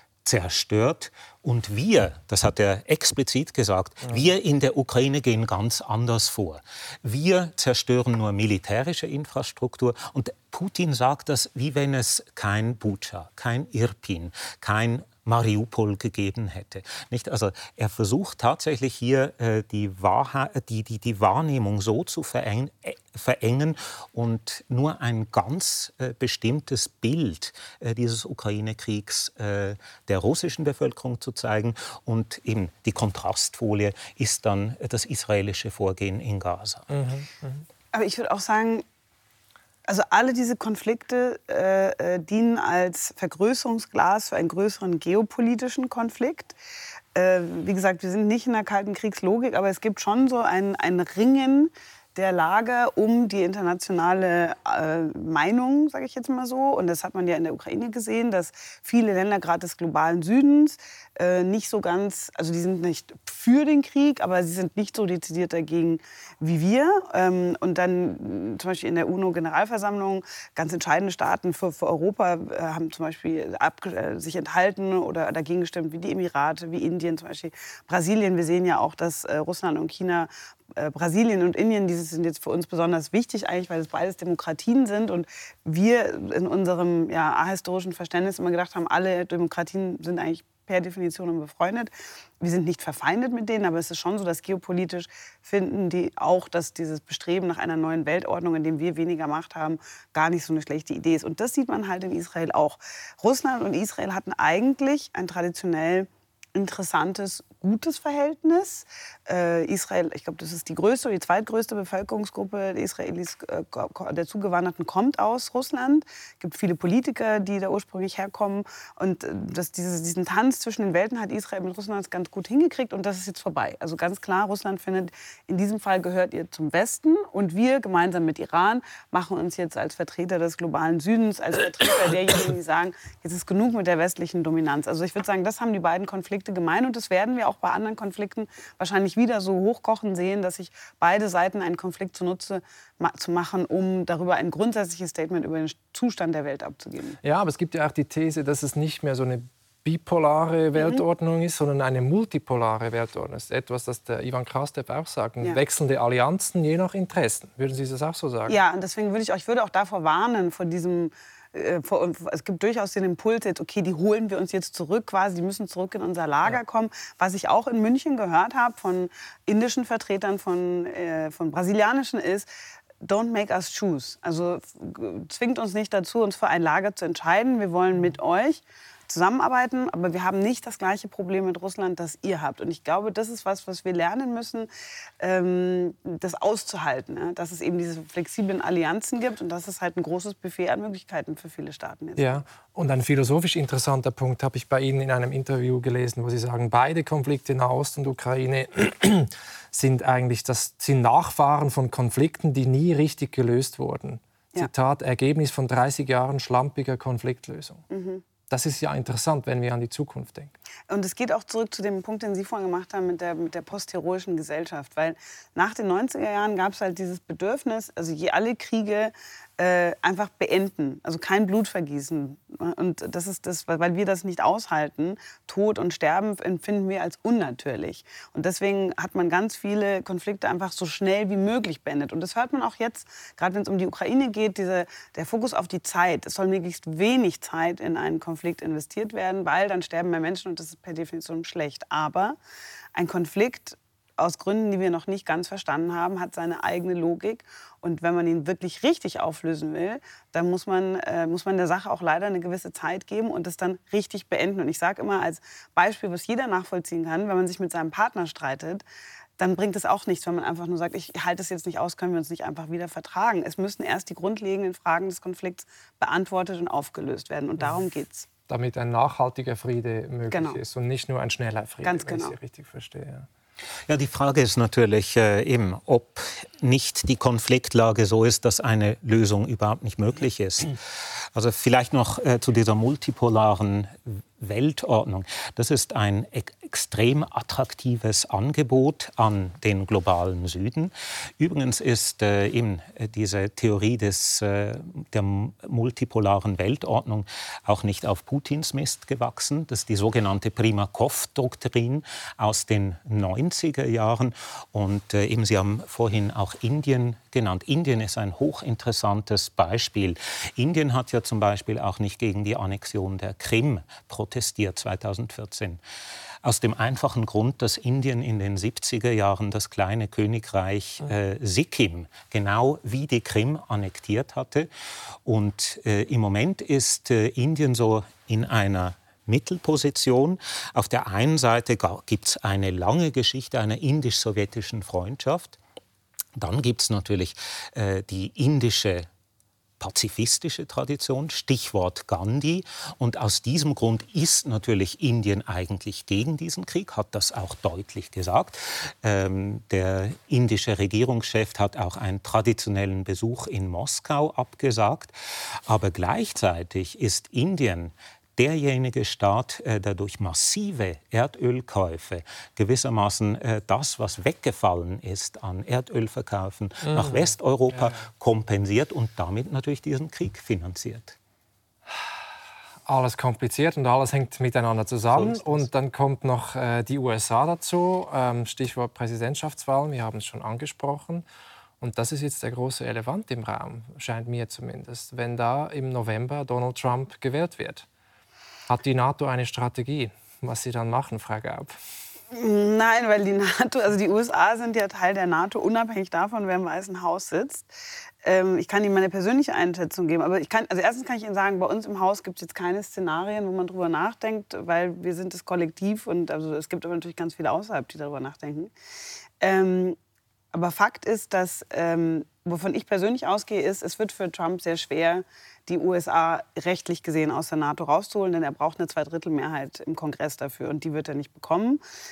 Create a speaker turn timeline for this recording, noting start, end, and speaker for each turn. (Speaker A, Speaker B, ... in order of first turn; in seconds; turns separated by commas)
Speaker A: 0.2-36.9, Speaker B: 36.9-37.6, Speaker C: 37.9-38.8, Speaker C: 39.9-46.6, Speaker C: 47.1-147.2, Speaker B: 147.2-158.6, Speaker C: 158.5-172.5, Speaker C: 173.0-184.7, Speaker C: 185.2-192.4, Speaker B: 192.2-207.8, Speaker C: 207.9-208.2, Speaker B: 208.5-210.6, Speaker C: 210.9-242.4, Speaker C: 242.9-258.8, Speaker C: 259.4-268.3, Speaker B: 268.5-273.3, Speaker C: 270.3-270.6, Speaker C: 271.8-272.4, Speaker A: 273.9-280.8, Speaker A: 281.3-315.8, Speaker A: 316.4-324.7, Speaker A: 325.2-335.6, Speaker A: 336.4-339.1, Speaker A: 339.8-355.1, Speaker A: 355.7-371.2, Speaker B: 366.9-368.0, Speaker B: 372.9-381.2, Speaker A: 375.1-375.6, Speaker B: 381.8-387.9, Speaker B: 388.7-391.8, Speaker C: 392.3-397.7, Speaker C: 398.2-408.7, Speaker C: 409.4-410.0, Speaker C: 410.5-421.8